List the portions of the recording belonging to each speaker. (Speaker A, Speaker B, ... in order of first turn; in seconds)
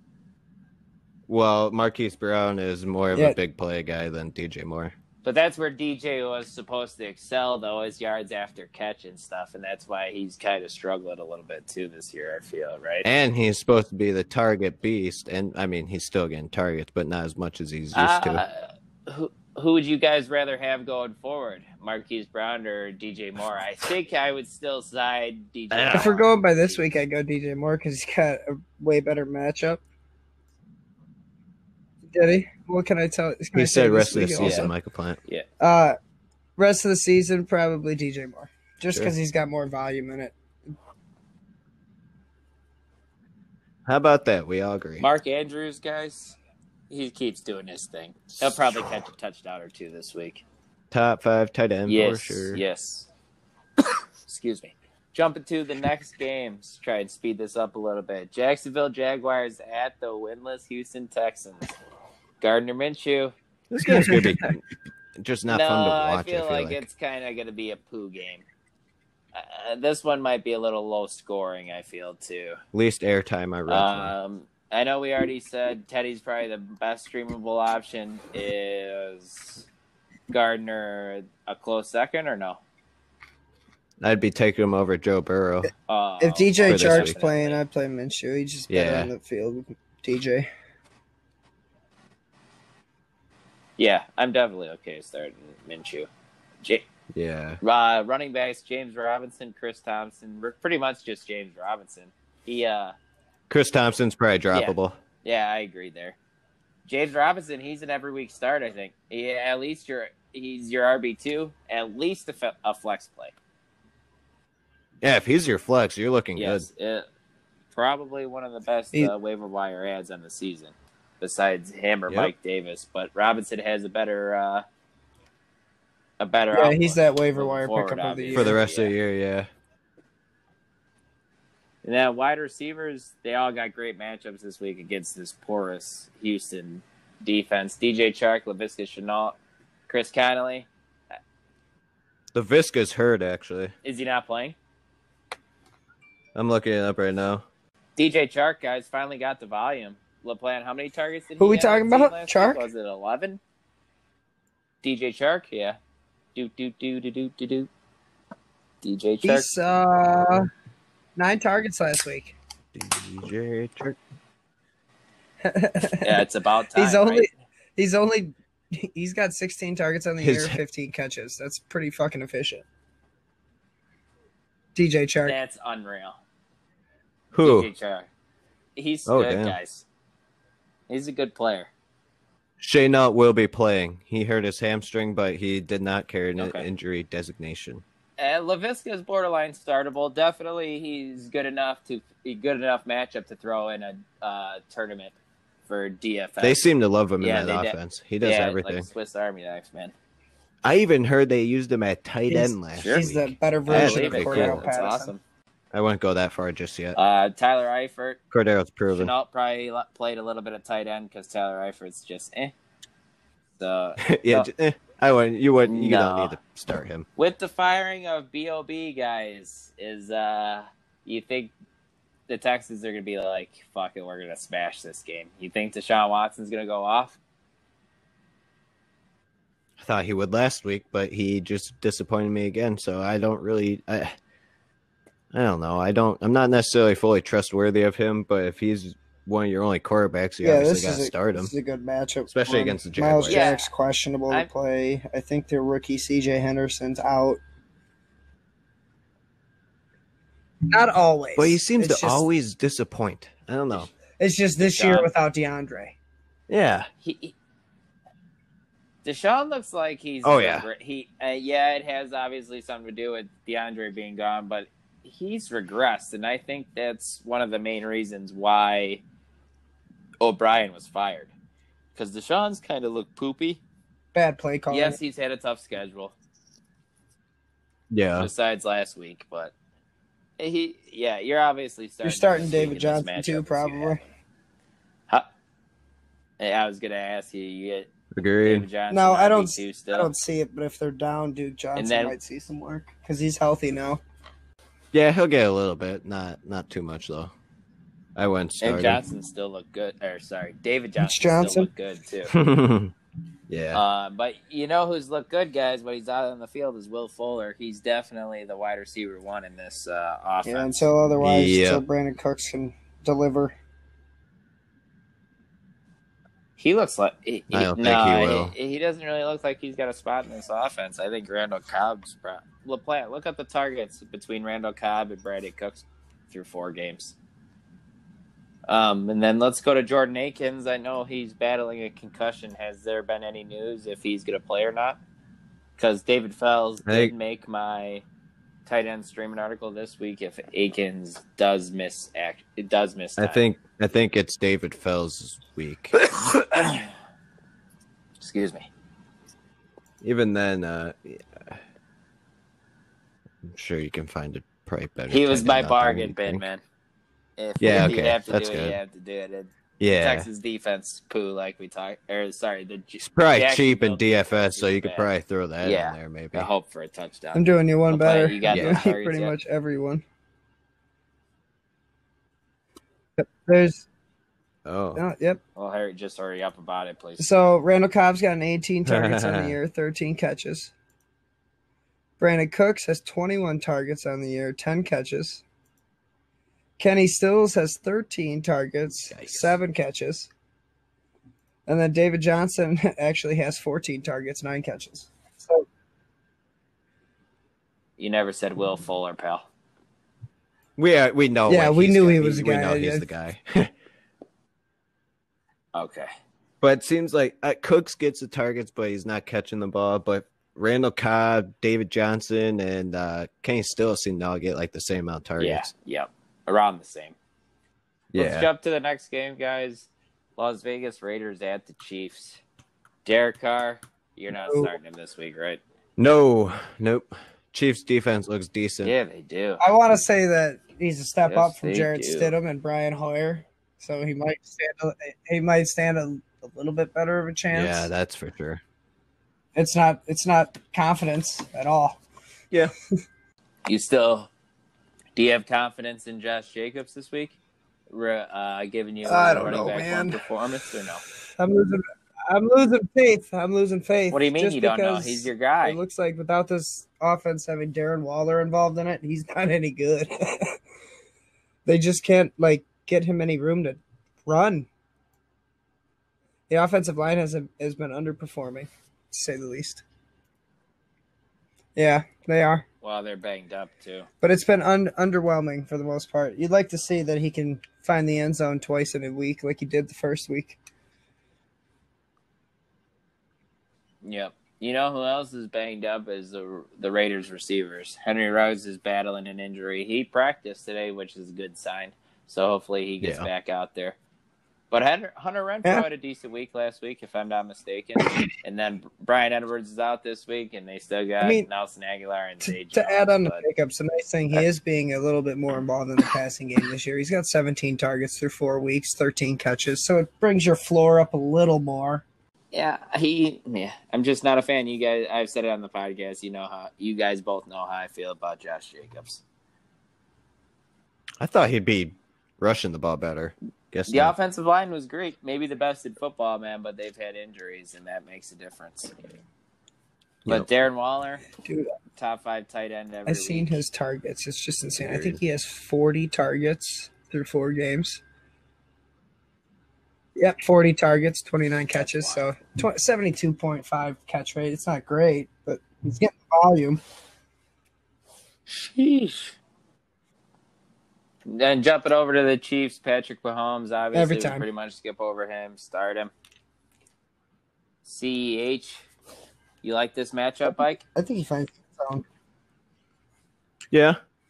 Speaker A: 1.3-4.9, 13.0-18.4, 25.7-26.1, 33.5-35.2, 43.9-45.1, 48.4-49.0, 50.9-52.6, 63.7-64.6, 65.2-66.8, 72.7-74.1, 84.0-85.7, 86.7-87.1, 88.7-89.1, 97.1-97.6, 103.5-105.0, 115.0-116.7, 128.3-129.5, 142.3-143.7, 146.3-147.4, 162.7-164.0, 170.2-170.6, 177.3-177.7, 179.1-179.5, 182.6-187.8, 196.4-198.8, 200.6-204.6, 205.7-207.0, 208.3-209.1, 214.0-217.1, 229.8-234.1, 235.3-241.5, 242.3-243.5, 251.3-253.9, 256.5-256.9, 260.2-260.7, 277.9-278.3, 288.1-288.7, 294.9-297.3, 298.1-299.0, 302.3-302.9, 303.5-303.8, 311.2-311.8, 317.5-318.5, 336.9-337.1, 343.2-346.0, 350.0-351.6, 353.4-356.4, 357.6-358.8, 359.8-360.3, 363.0-366.5, 368.5-368.9, 374.6-375.0, 378.9-379.6, 389.1-389.6, 400.8-403.7, 406.6-415.7, 418.1-418.5, 426.0-428.9, 437.5-438.6, 493.0-493.3, 521.2-524.1, 534.8-535.2, 563.7-564.0
Speaker B: 5.2-13.1, 17.9-26.8, 34.4-34.7, 45.0-46.4, 46.9-50.4, 51.9-53.1, 54.2-61.7, 62.4-63.3, 65.5-68.4, 69.3-72.6, 73.7-79.6, 80.3-82.6, 85.9-87.6, 93.8-96.1, 97.6-102.9, 104.5-106.2, 106.8-113.3, 116.3-117.1, 117.7-124.6, 126.2-128.9, 131.8-139.4, 139.9-140.7, 143.8-144.6, 148.0-153.4, 154.8-155.8, 156.3-157.7, 158.8-159.5, 166.0-167.3, 175.2-176.2, 177.4-178.1, 178.8-179.8, 180.9-181.7, 186.4-186.6, 188.2-195.2, 195.7-196.6, 197.2-199.9, 202.8-203.1, 203.7-205.2, 206.9-208.2, 208.9-212.5, 213.6-214.5, 215.7-216.3, 217.2-221.5, 222.3-227.2, 243.2-243.7, 254.6-255.1, 257.0-257.3, 259.0-269.0, 270.2-271.3, 271.9-273.6, 274.7-276.1, 278.1-279.5, 280.4-284.1, 286.4-287.9, 288.4-290.1, 291.7-292.1, 298.6-302.3, 303.7-310.9, 316.6-327.1, 328.7-335.0, 335.8-338.0, 338.6-343.4, 345.9-346.9, 348.2-348.7, 355.1-356.6, 357.4-365.1, 365.6-369.4, 375.6-377.2, 398.0-399.4, 405.7-406.1, 415.4-417.1, 418.1-422.4, 423.0-425.6, 428.8-429.6, 431.2-432.3, 443.7-444.3, 445.1-447.3, 447.9-451.0, 454.1-455.8, 472.8-474.1, 484.0-494.0, 494.7-503.4, 512.5-519.2, 523.9-528.9, 530.3-531.2, 532.0-533.6, 541.7-542.2, 548.5-549.3, 551.2-556.1, 557.8-558.9, 559.6-560.8
Speaker C: 25.9-29.8, 32.1-34.7, 35.6-36.0, 36.6-40.3, 63.9-64.5, 86.2-90.5, 126.5-128.6, 151.4-152.7, 159.2-160.5, 161.2-162.3, 165.4-166.2, 166.7-172.6, 174.7-175.4, 202.3-205.1, 240.4-247.4, 250.7-252.3, 254.2-255.9, 274.1-275.0, 282.0-284.0, 288.9-294.0, 301.0-301.7, 310.4-313.5, 367.3-370.0, 373.2-373.9, 374.9-375.4, 377.2-380.7, 382.2-385.4, 386.8-390.3, 391.7-395.6, 401.5-403.1, 424.4-424.7, 429.6-437.9, 439.5-442.0, 449.1-450.2, 451.4-460.6, 461.6-464.7, 466.5-469.8, 471.8-472.6, 474.2-480.6, 498.0-498.3, 501.2-501.5, 502.4-512.0, 531.4-531.7, 533.1-538.0, 540.1-546.8, 553.9-554.4, 560.9-562.0